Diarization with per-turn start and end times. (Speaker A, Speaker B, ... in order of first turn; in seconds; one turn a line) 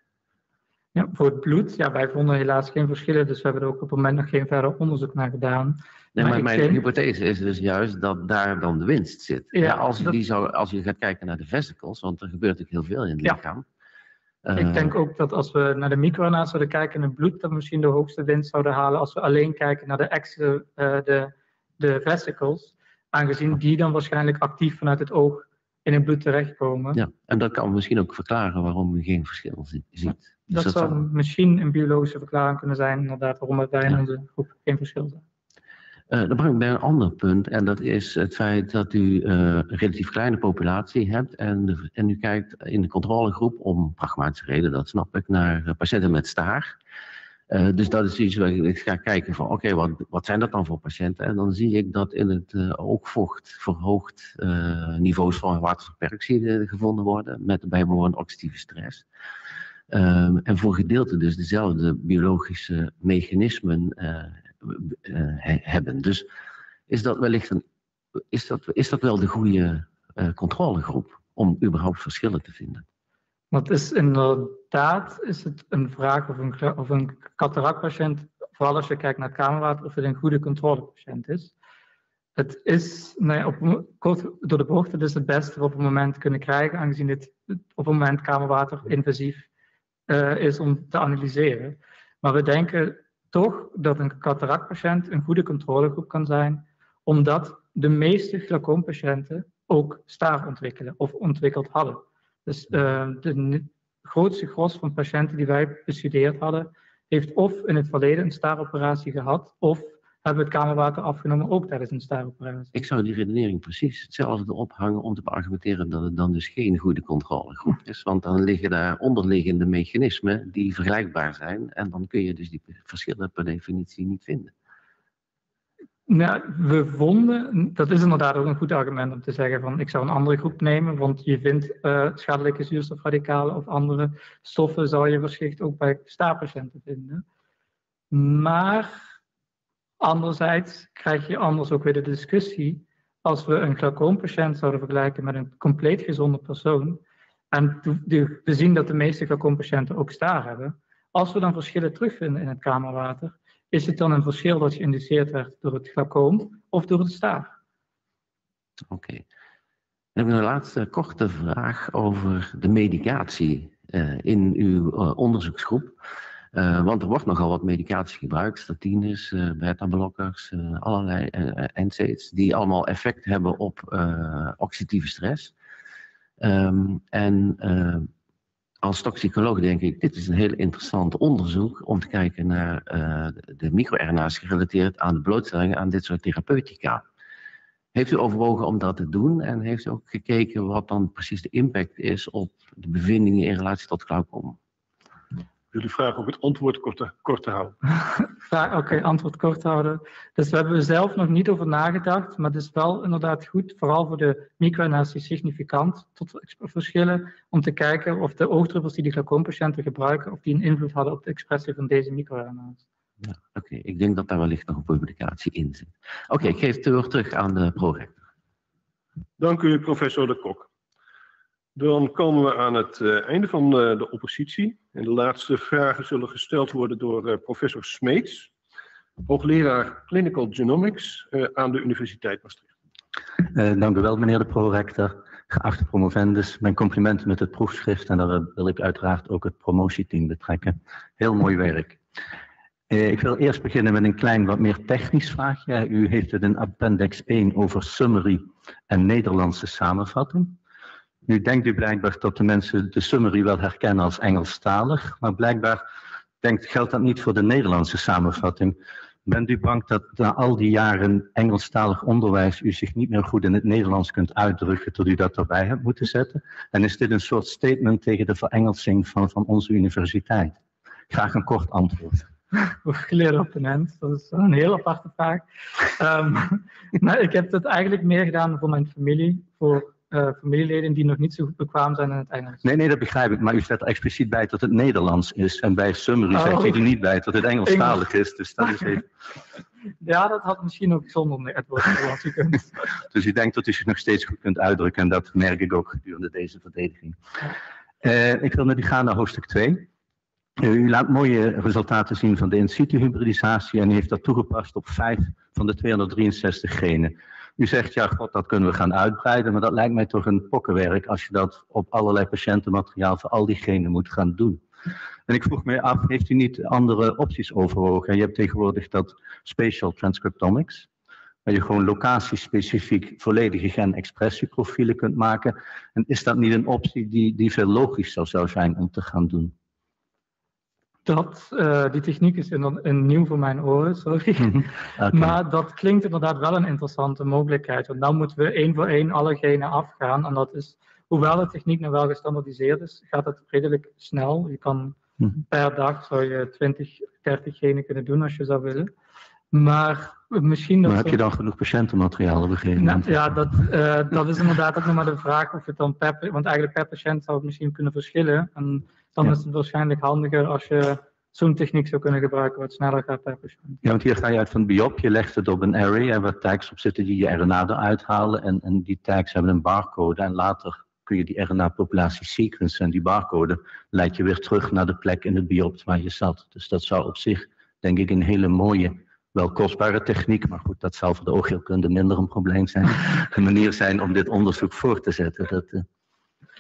Speaker A: 0.9-6.8
Speaker B: 6.2-13.7
Speaker A: 9.5-10.2
Speaker B: 14.4-15.0
Speaker A: 14.5-27.0
Speaker B: 26.9-31.0
Speaker A: 30.5-35.2
Speaker B: 36.1-46.8
Speaker B: 47.5-59.0
Speaker B: 59.9-66.3
Speaker B: 66.9-67.6
Speaker B: 68.3-72.9
Speaker A: 73.5-81.5
Speaker A: 82.4-89.5
Speaker A: 90.1-112.8
Speaker B: 112.7-124.5
Speaker A: 126.1-137.2
Speaker A: 138.1-139.0
Speaker A: 140.0-157.5
Speaker B: 158.9-159.2
Speaker B: 160.2-166.0
Speaker B: 166.5-175.5
Speaker B: 176.4-178.1
Speaker B: 178.8-187.0
Speaker B: 187.9-194.6
Speaker C: 195.7-197.8
Speaker A: 198.4-212.8
Speaker B: 213.2-218.2
Speaker C: 219.4-220.7
Speaker C: 221.8-228.5
Speaker C: 229.2-232.7
Speaker D: 233.4-242.0
Speaker D: 242.9-250.6
Speaker D: 251.2-255.8
Speaker D: 256.4-270.6
Speaker D: 271.1-272.3
Speaker A: 272.7-282.6
Speaker D: 282.6-289.0
Speaker A: 286.3-286.8
Speaker A: 287.6-288.0
Speaker A: 288.6-288.9
Speaker A: 290.0-292.7
Speaker D: 293.1-297.2
Speaker D: 298.0-299.9
Speaker D: 300.6-314.6
Speaker D: 315.3-320.9
Speaker D: 321.4-329.5
Speaker A: 331.1-345.0
Speaker D: 334.4-335.4
Speaker A: 345.5-348.9
Speaker A: 349.5-351.2
Speaker D: 350.8-353.1
Speaker A: 352.8-363.8
Speaker D: 363.8-385.9